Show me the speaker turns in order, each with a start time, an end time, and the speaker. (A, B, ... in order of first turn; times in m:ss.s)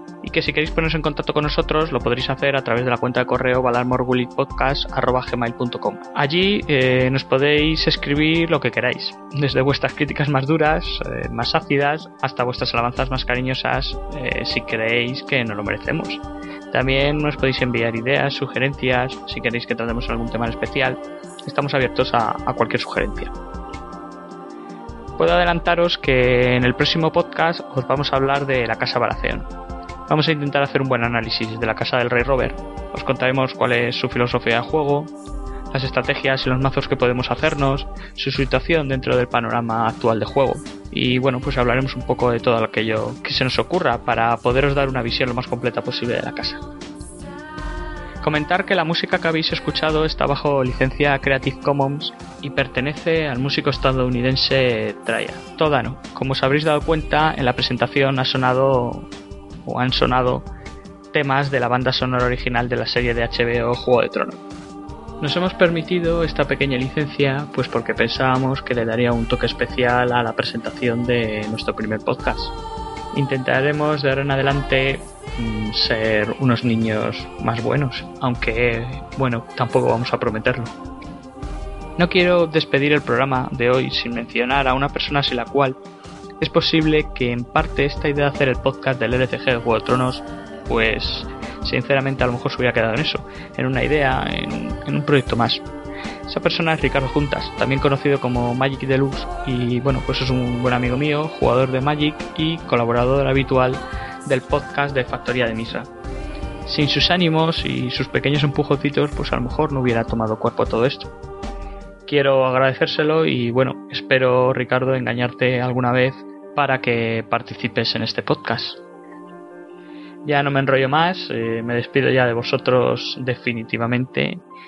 0:00.2-0:23.3 A
0:25.2-0:29.4 A
0:30.1-0:35.1 A
0:35.7-0:46.6 A
0:48.2-0:59.1 A
0:59.6-1:00.4 A
1:01.1-1:04.4 A
1:05.2-1:12.5 A
1:13.1-1:20.7 A
1:22.0-1:25.8 A
1:26.4-1:35.6 A
1:36.3-1:45.9 A
1:46.6-1:51.1 A
1:52.0-1:58.8 A
2:00.2-2:04.4 A